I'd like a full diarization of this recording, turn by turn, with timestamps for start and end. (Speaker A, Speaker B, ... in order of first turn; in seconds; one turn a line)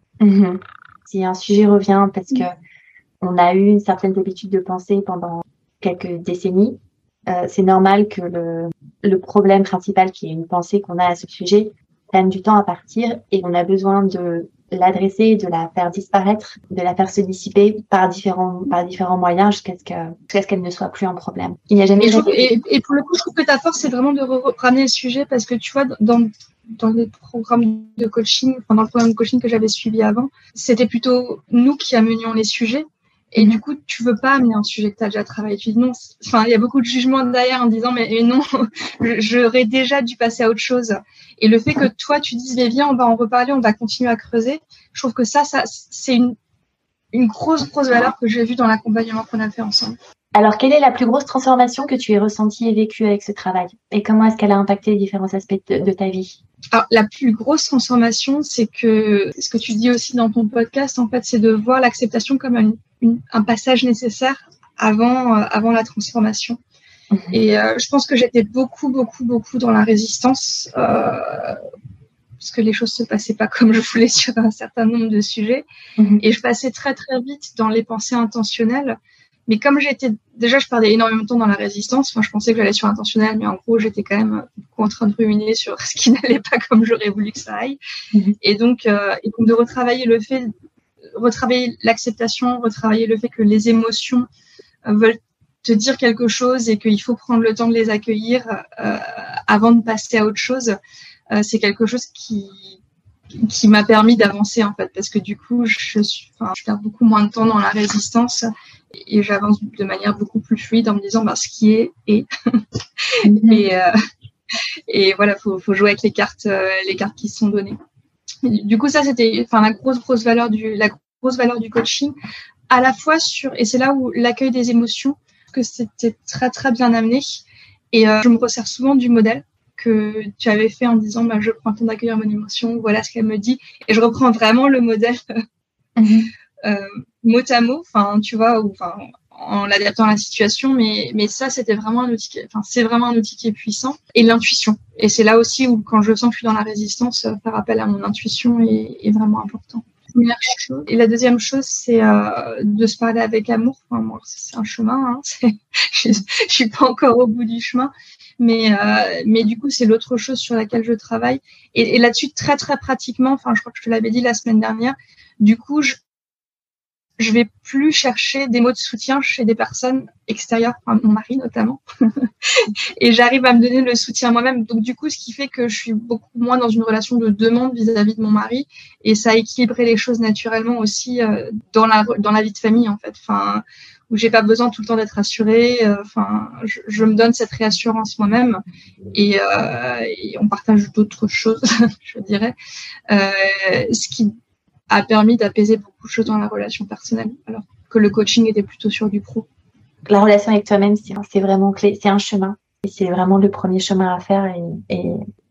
Speaker A: 0.2-2.5
Speaker A: 3.2-22.5
Speaker B: 22.0-46.3
Speaker B: 47.1-50.0
Speaker A: 50.3-56.4
Speaker B: 56.7-66.6
Speaker A: 67.1-67.4
Speaker B: 67.3-71.6
Speaker B: 72.4-75.7
Speaker A: 76.0-76.2
Speaker B: 76.2-87.8
Speaker B: 88.4-90.5
Speaker B: 91.1-94.3
Speaker B: 94.9-100.8
Speaker B: 101.3-102.8
Speaker B: 103.4-113.9
Speaker A: 113.2-113.7
Speaker B: 114.9-117.8
Speaker B: 118.4-122.1
Speaker B: 122.7-135.4
Speaker A: 136.0-136.3
Speaker B: 136.6-166.0
Speaker B: 167.2-188.6
Speaker B: 189.1-192.6
Speaker B: 193.1-194.3
Speaker B: 194.9-199.5
Speaker A: 200.1-205.2